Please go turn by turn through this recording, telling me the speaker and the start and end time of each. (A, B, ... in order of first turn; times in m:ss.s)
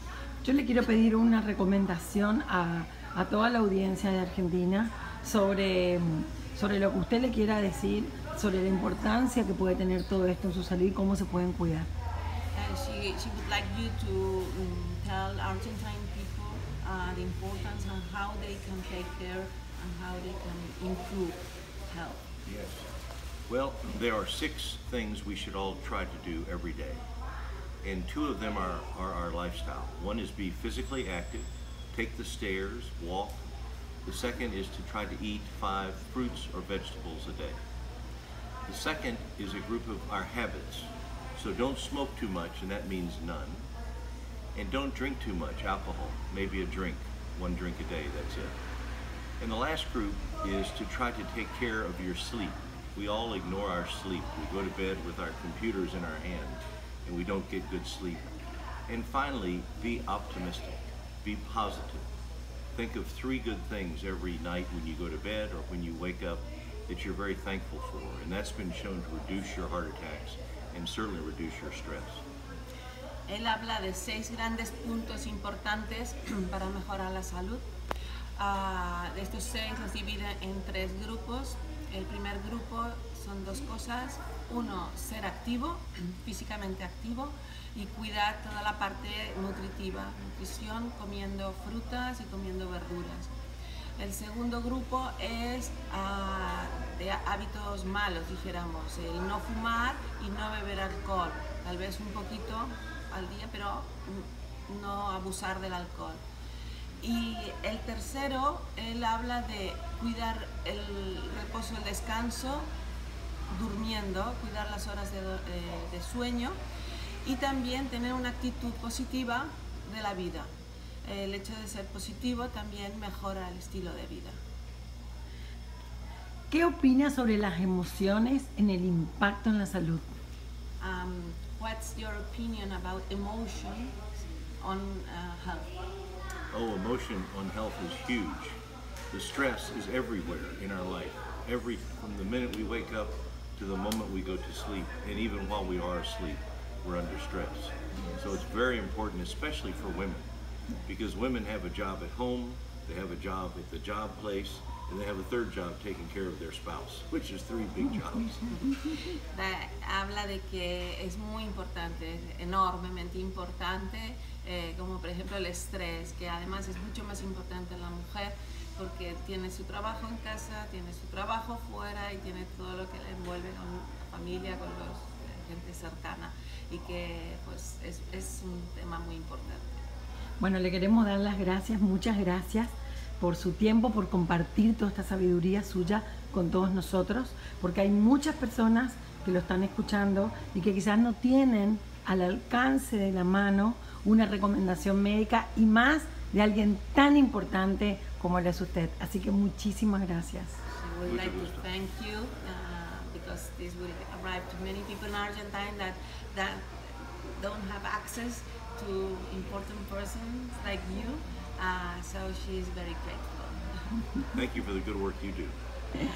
0:00.4-0:11.9 A
0:12.5-0:21.4 B
0:21.9-0:22.3 B
0:22.5-0:22.9 C
0:23.5-0:27.0 C
0:27.8-0:33.4 C
0:34.0-0:37.6 C
0:38.7-0:43.7 C
0:44.6-0:48.5 C
0:49.4-0:58.2 C
0:58.9-1:02.1 C
1:02.7-1:12.2 C
1:13.3-1:17.6 B
1:18.4-1:33.3 B
1:34.0-1:46.2 B
1:47.0-1:52.7 B
1:53.5-1:56.6 B
1:57.2-2:00.5 B
2:01.0-2:04.4 B
2:06.5-2:10.1 A
2:10.8-2:14.0 B
2:14.6-2:15.7 B
2:16.5-2:18.6 C
2:19.1-2:30.3 C
2:30.9-2:38.6 C
2:39.3-2:59.7 B
3:00.4-3:20.6 A
3:20.7-3:33.8 B
3:21.0-3:21.6 C
3:34.3-3:35.6 C